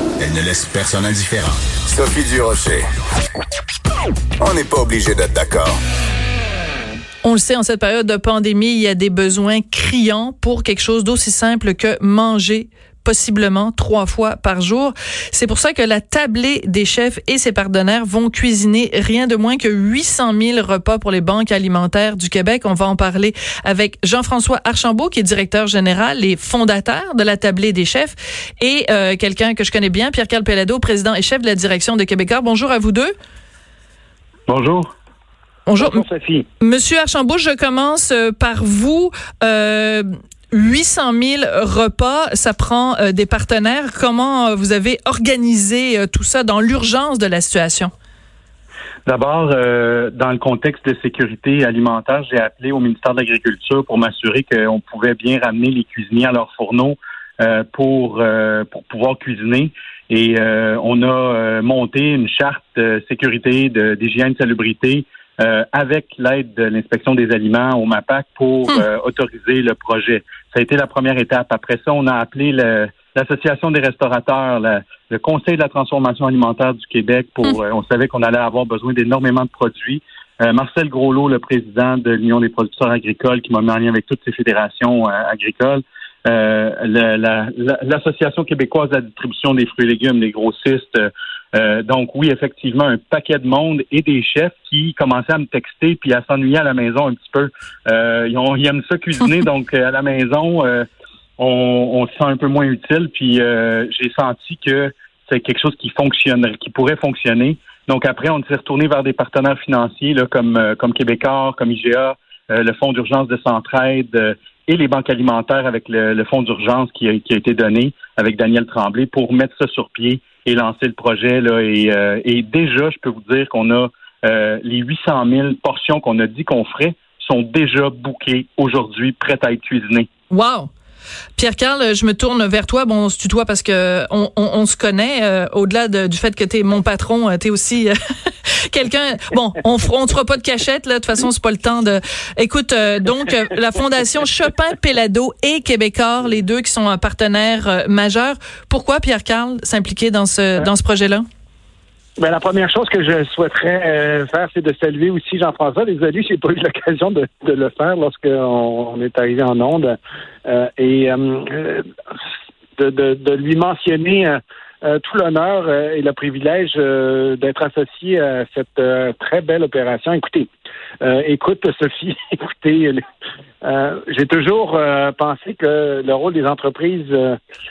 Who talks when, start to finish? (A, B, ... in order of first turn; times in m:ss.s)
0:00.2-0:02.9 A
0:04.4-0:05.8 A
0:07.2-0:33.1 B
0:34.5-0:34.9 C
0:35.7-0:36.0 B
0:35.8-0:36.5 D
0:36.6-0:47.9 B
0:49.1-1:40.9 C
1:41.4-2:10.1 C
2:10.3-2:10.7 B
2:11.4-2:31.2 B
2:32.2-2:41.8 D
2:42.8-2:50.5 D
2:51.0-2:53.0 D
2:53.6-2:57.4 D